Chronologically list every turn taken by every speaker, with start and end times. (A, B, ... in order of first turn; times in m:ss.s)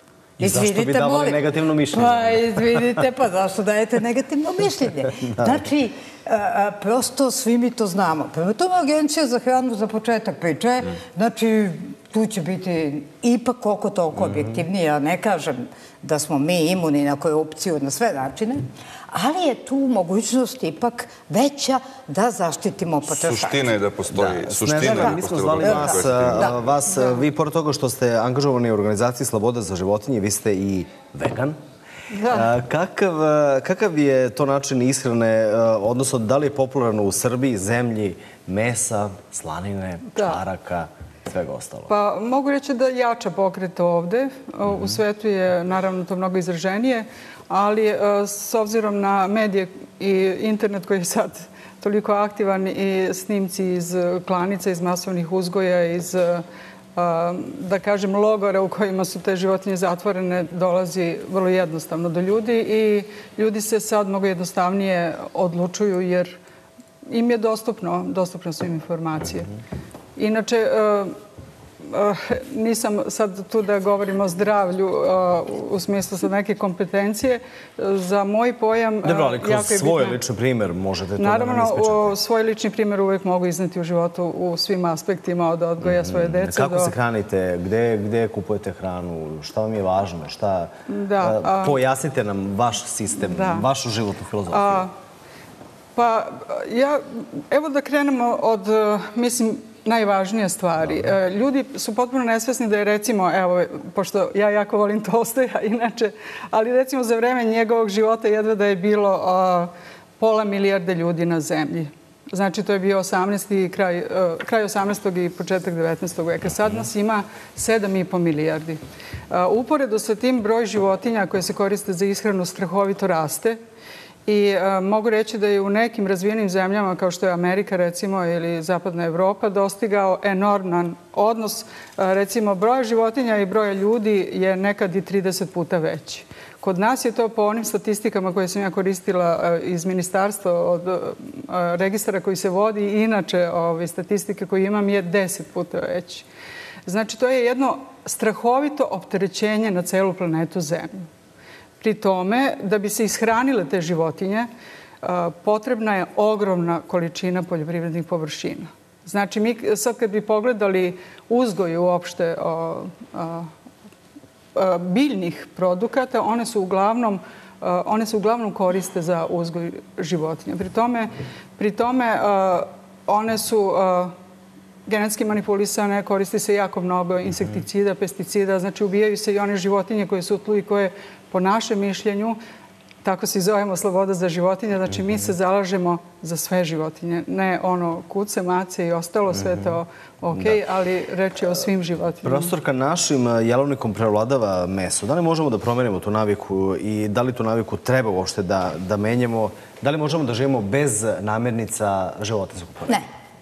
0:00.4-0:03.0 A
0:00.4-0:23.7 B
0:23.1-0:26.6 C
0:24.1-0:31.6 A
0:24.8-0:26.5 B
0:26.9-0:27.2 D
0:32.1-0:32.5 D
0:32.2-0:41.9 A
0:40.1-0:40.4 D
0:41.9-0:56.4 D
0:56.9-1:06.4 D
1:07.1-1:09.5 D
1:10.2-1:11.1 D
1:11.8-1:20.2 D
1:19.0-1:22.2 A
1:21.2-1:26.9 D
1:25.8-1:34.9 A
1:30.9-1:31.8 D
1:33.2-1:33.7 D
1:34.5-1:34.9 D
1:35.9-2:03.6 D
2:04.2-2:26.2 D
2:26.8-2:31.1 D
2:31.8-2:34.5 D
2:35.0-2:43.5 D
2:44.5-2:54.1 D
2:54.8-3:02.4 D
3:03.0-3:12.5 D
3:09.3-3:09.8 A
3:12.2-3:23.0 A